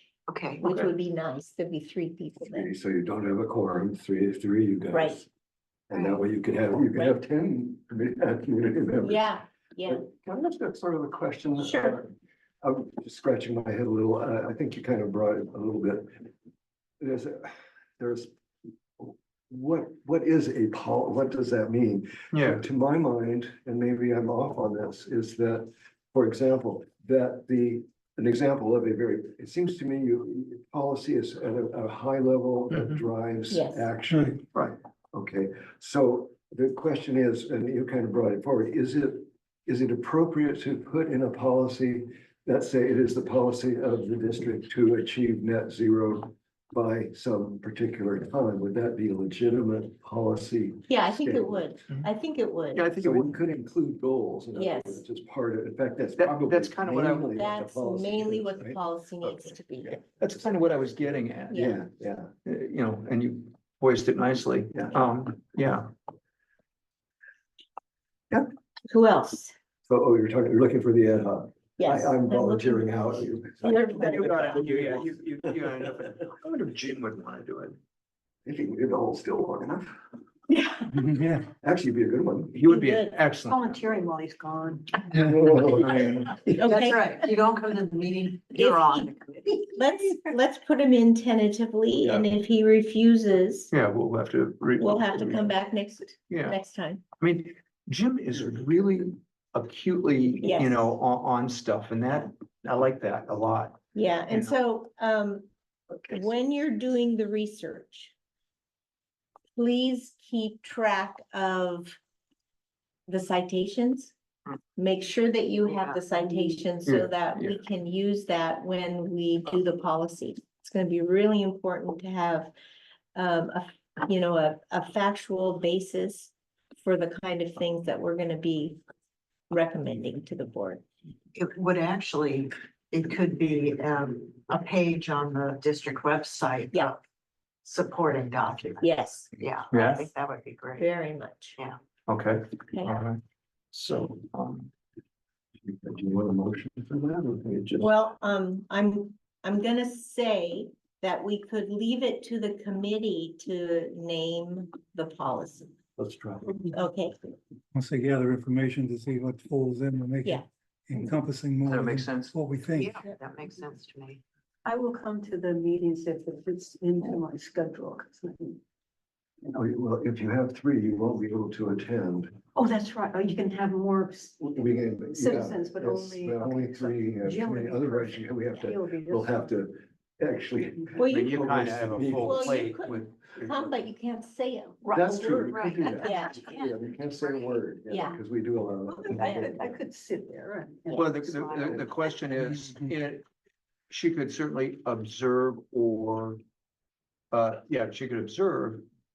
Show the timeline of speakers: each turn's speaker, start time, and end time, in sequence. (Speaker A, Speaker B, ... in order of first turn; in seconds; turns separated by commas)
Speaker A: 0.3-0.9, Speaker B: 0.6-2.7, Speaker C: 2.5-5.3, Speaker B: 4.9-5.2, Speaker C: 5.9-9.3, Speaker A: 5.9-6.3, Speaker B: 9.0-10.1, Speaker C: 9.9-16.3, Speaker B: 11.6-12.0, Speaker C: 17.0-18.3, Speaker C: 19.0-34.5, Speaker D: 22.3-22.6, Speaker D: 32.7-33.0, Speaker B: 33.5-33.9, Speaker E: 34.1-34.4, Speaker C: 35.1-51.7, Speaker B: 50.9-52.9, Speaker D: 52.8-53.4, Speaker C: 53.0-58.8, Speaker B: 54.5-55.0, Speaker D: 56.2-57.4, Speaker B: 57.3-60.0, Speaker D: 59.2-61.6, Speaker B: 61.5-61.8, Speaker C: 61.5-62.3, Speaker D: 62.5-65.9, Speaker B: 68.9-69.5, Speaker C: 69.9-75.2, Speaker B: 71.8-74.8, Speaker D: 74.0-77.8, Speaker C: 78.5-79.9, Speaker B: 80.5-81.0, Speaker E: 81.0-81.5, Speaker C: 81.6-82.6, Speaker D: 82.5-83.8, Speaker B: 82.7-83.3, Speaker F: 83.5-85.2, Speaker C: 85.3-86.2, Speaker D: 85.5-86.5, Speaker B: 86.5-87.1, Speaker A: 86.6-90.3, Speaker B: 88.5-89.1, Speaker B: 89.6-93.7, Speaker D: 92.0-92.3, Speaker D: 93.7-95.5, Speaker B: 94.8-97.0, Speaker D: 96.3-96.6, Speaker D: 97.2-103.8, Speaker B: 100.4-100.9, Speaker B: 103.9-105.5, Speaker B: 106.1-108.1, Speaker B: 109.6-112.0, Speaker B: 113.1-114.1, Speaker B: 114.8-122.5, Speaker D: 116.9-117.6, Speaker B: 123.2-126.3, Speaker B: 126.8-128.8, Speaker B: 129.5-130.8, Speaker A: 131.3-137.0, Speaker A: 137.6-140.9, Speaker B: 138.8-139.3, Speaker D: 139.7-140.1, Speaker B: 140.8-141.6, Speaker D: 142.1-143.2, Speaker B: 142.7-143.0, Speaker D: 143.7-144.7, Speaker C: 145.7-147.9, Speaker B: 147.8-155.8, Speaker C: 156.0-156.5, Speaker B: 156.7-157.3, Speaker E: 157.7-163.1, Speaker D: 161.7-162.3, Speaker A: 162.7-164.2, Speaker F: 164.7-168.6, Speaker C: 169.5-172.3, Speaker F: 172.6-179.6, Speaker C: 174.4-182.6, Speaker F: 180.8-181.0, Speaker B: 181.0-181.4, Speaker D: 181.1-183.8, Speaker B: 182.2-184.9, Speaker F: 184.8-186.7, Speaker C: 184.9-189.8, Speaker A: 185.5-185.9, Speaker B: 185.9-186.5, Speaker B: 187.9-188.2, Speaker F: 188.9-192.0, Speaker B: 189.1-189.5, Speaker D: 190.9-193.3, Speaker E: 192.4-192.9, Speaker D: 193.9-196.4, Speaker D: 197.3-198.8